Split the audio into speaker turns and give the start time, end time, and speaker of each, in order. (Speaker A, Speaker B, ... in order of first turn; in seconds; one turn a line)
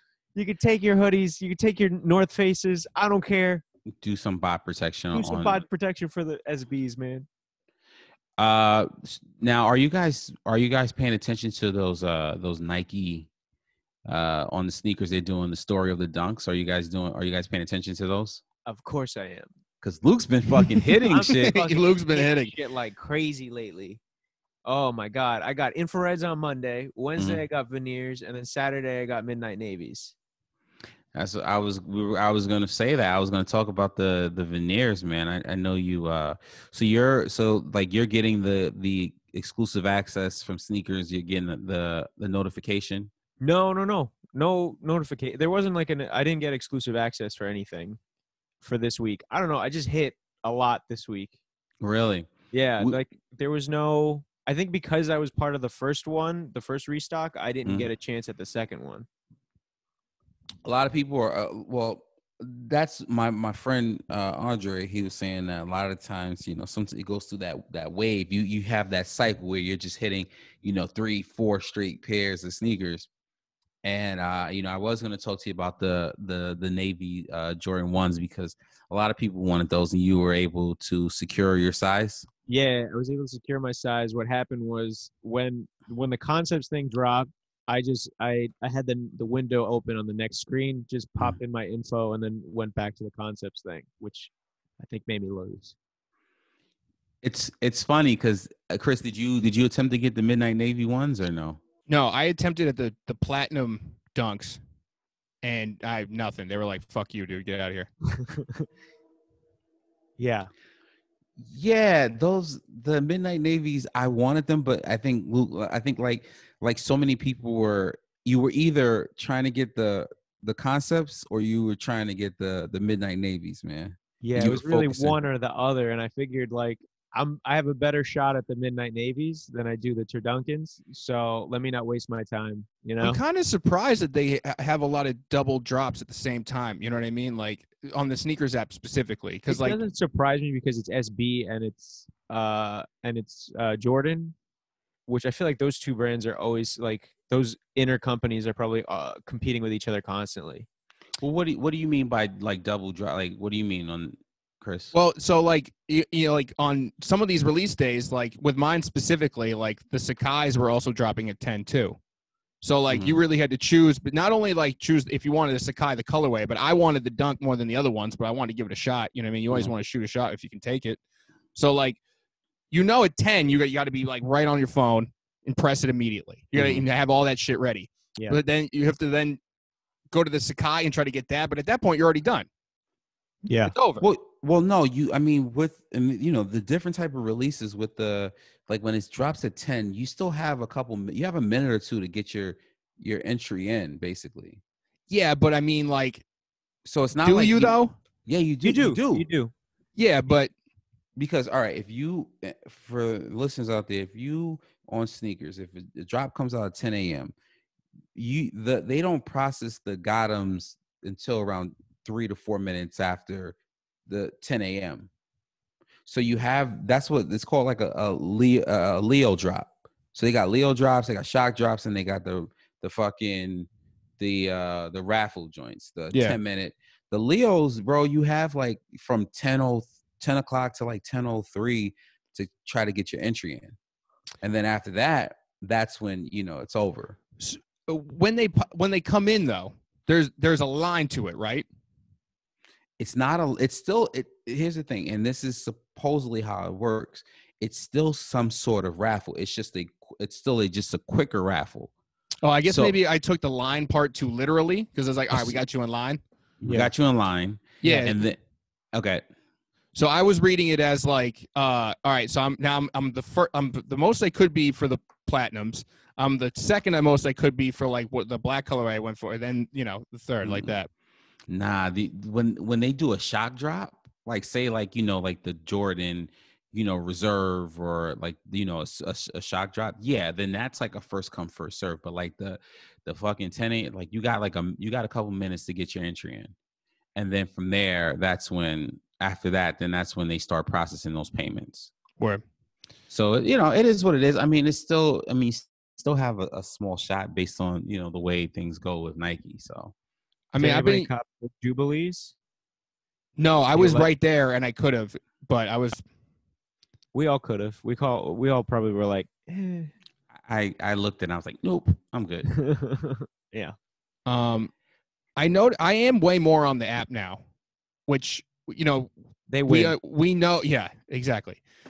Speaker A: 0.3-3.6
Speaker B: 4.0-5.6
Speaker A: 5.1-7.3
Speaker B: 8.4-13.3
Speaker B: 14.1-18.4
Speaker A: 18.7-19.5
Speaker B: 19.8-21.6
Speaker A: 21.1-24.0
Speaker C: 21.4-22.5
Speaker A: 24.6-30.1
Speaker B: 27.2-27.4
Speaker B: 31.1-43.1
Speaker A: 43.4-48.0
Speaker A: 48.6-51.3
Speaker B: 51.8-53.0
Speaker A: 52.5-59.1
Speaker B: 60.6-73.1
Speaker B: 73.8-82.3
Speaker A: 82.5-95.8
Speaker B: 97.2-101.6
Speaker C: 101.9-104.6
Speaker C: 105.4-107.9
Speaker A: 108.1-108.7
Speaker A: 110.2-110.5
Speaker B: 111.4-125.2
Speaker A: 124.2-133.2
Speaker C: 133.0-139.8
Speaker A: 139.5-144.3
Speaker A: 145.1-150.7
Speaker B: 151.2-154.9
Speaker C: 154.9-162.0
Speaker C: 162.6-171.0
Speaker B: 162.9-163.2
Speaker C: 171.6-172.0
Speaker C: 172.7-179.4
Speaker B: 176.6-176.8
Speaker C: 180.1-182.5
Speaker A: 183.5-183.7
Speaker C: 183.7-184.0
Speaker B: 184.0-194.6
Speaker C: 195.1-196.2
Speaker B: 196.8-199.3
Speaker C: 197.2-197.9
Speaker A: 198.6-199.5
Speaker C: 200.0-200.5
Speaker B: 201.2-207.3
Speaker B: 208.2-213.6
Speaker B: 214.1-215.1
Speaker B: 216.1-233.8
Speaker C: 226.1-226.4
Speaker B: 234.4-237.2
Speaker C: 237.4-241.7
Speaker B: 243.0-251.9
Speaker C: 252.4-256.2
Speaker B: 252.7-253.0
Speaker B: 255.3-255.6
Speaker B: 256.6-258.4
Speaker A: 256.7-256.9
Speaker C: 257.8-258.1
Speaker B: 258.9-259.2
Speaker C: 259.9-270.9
Speaker B: 270.4-270.8
Speaker B: 271.5-286.5
Speaker B: 287.2-291.9
Speaker B: 293.1-299.9
Speaker C: 300.5-301.1
Speaker A: 300.6-302.3
Speaker C: 303.4-306.0
Speaker A: 303.8-304.1
Speaker A: 307.1-309.9
Speaker B: 310.4-312.5
Speaker A: 312.5-313.8
Speaker C: 314.3-314.7
Speaker C: 315.4-317.4
Speaker C: 318.1-319.1
Speaker A: 319.5-320.0
Speaker C: 319.7-321.6